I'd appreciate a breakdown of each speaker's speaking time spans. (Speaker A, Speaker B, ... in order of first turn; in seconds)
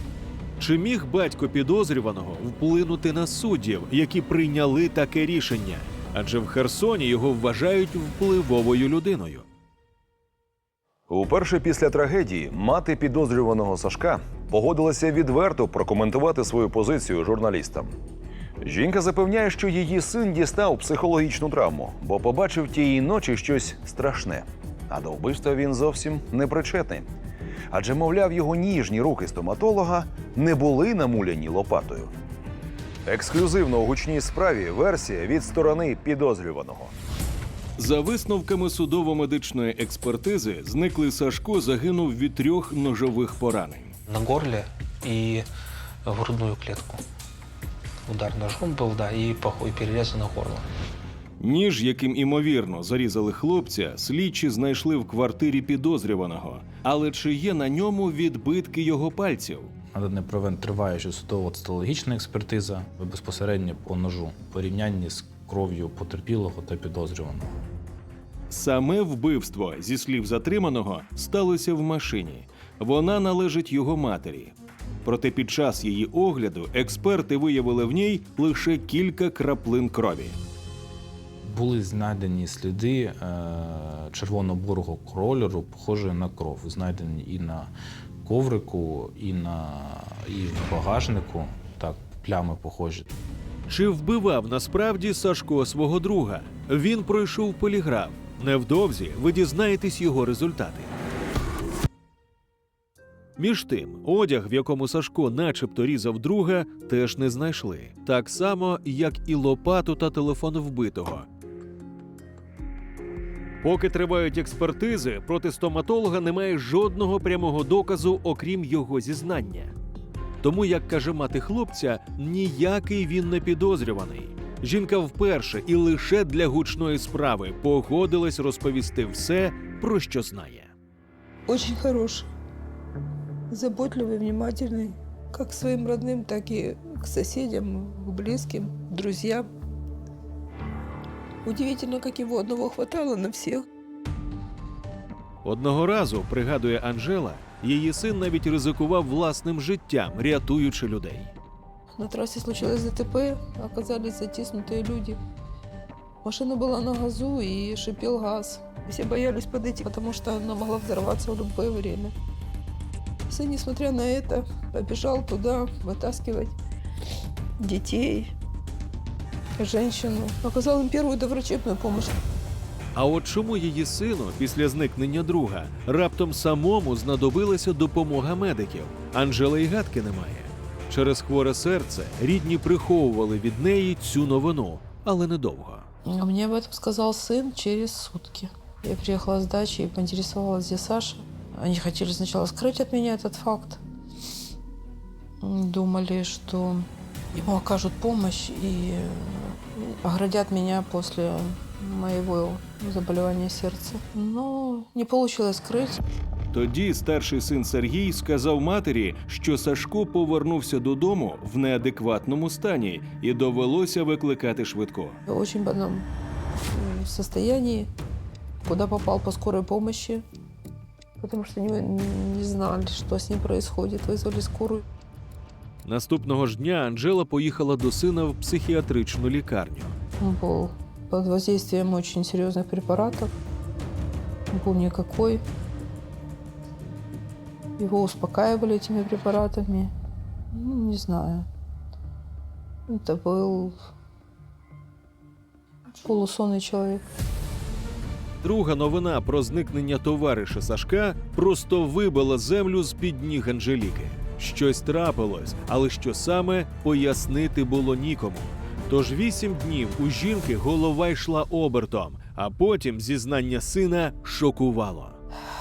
Speaker A: 0.6-9.5, 37.8-44.0, 51.4-59.7, 68.5-74.5, 75.0-80.4, 93.7-100.9, 103.4-111.3, 113.6-119.7, 120.4-130.7, 145.4-151.3, 172.9-185.9, 206.5-215.2, 225.8-230.0, 248.4-265.2
Speaker B: 11.1-17.9, 18.6-27.1, 27.7-32.1, 33.1-36.9
Speaker C: 44.1-45.5, 46.0-47.0, 48.1-50.7
Speaker D: 59.9-67.6, 81.4-87.7, 88.2-93.1
Speaker E: 131.5-132.3, 133.5-139.5, 141.4-143.7, 151.9-155.2, 156.2-162.1, 163.3-166.6, 167.6-168.3, 169.6-172.2, 186.1-193.8, 195.4-206.0, 215.3-216.1, 216.7-217.9, 218.6-220.3, 221.2-224.8, 230.2-233.3, 234.5-235.4, 237.8-239.9, 240.5-241.5, 242.9-243.8, 246.0-247.0